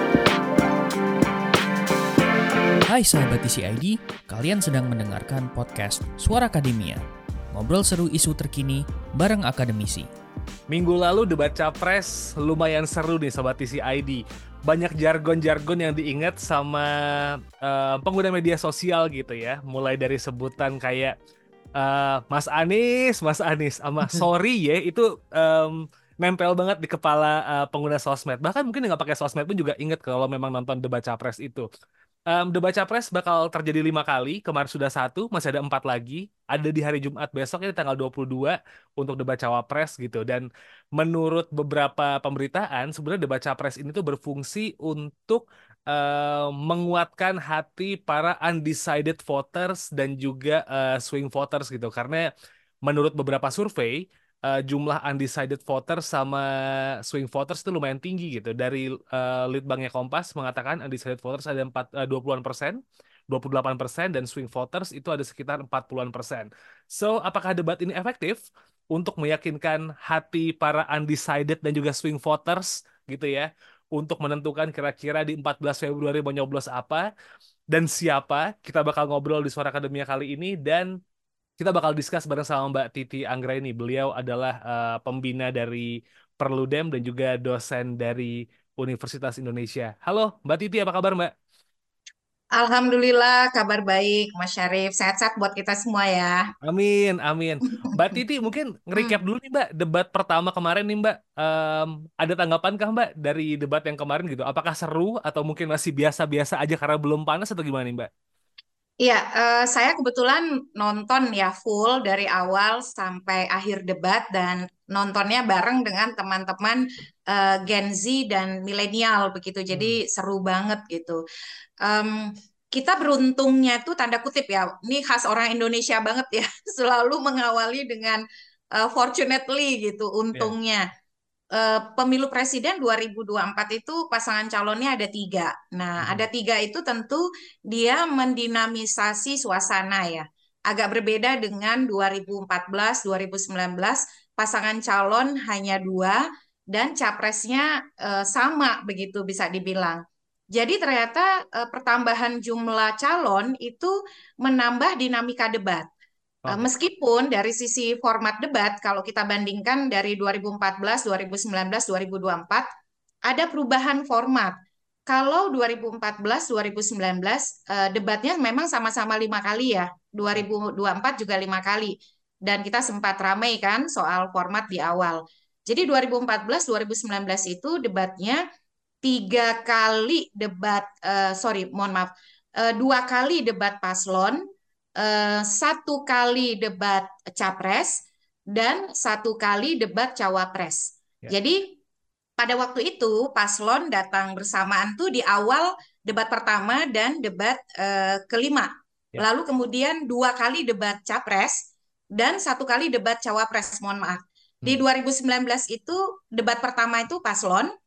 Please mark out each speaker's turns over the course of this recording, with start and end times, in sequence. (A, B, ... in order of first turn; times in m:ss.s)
0:02.8-0:10.1 A
0:10.7-0:21.1 B
0:21.8-0:31.6 B
0:32.3-0:52.3 B
0:52.8-1:17.0 B
1:17.7-1:20.9 B
1:21.6-1:31.3 B
1:32.6-1:36.5 C
1:36.6-1:48.1 B
1:49.0-2:01.2 C
1:59.7-2:00.0 B
2:01.8-2:08.2 C
2:08.7-2:10.9 C
2:11.5-2:30.0 C
2:16.0-2:16.2 B
2:30.5-2:35.8 C
2:36.5-2:42.6 C
2:43.3-2:44.5 C
2:45.1-2:58.4 C
2:59.0-3:04.4 C
3:05.0-3:11.8 C
3:12.4-3:21.6 C
3:22.2-3:27.7 C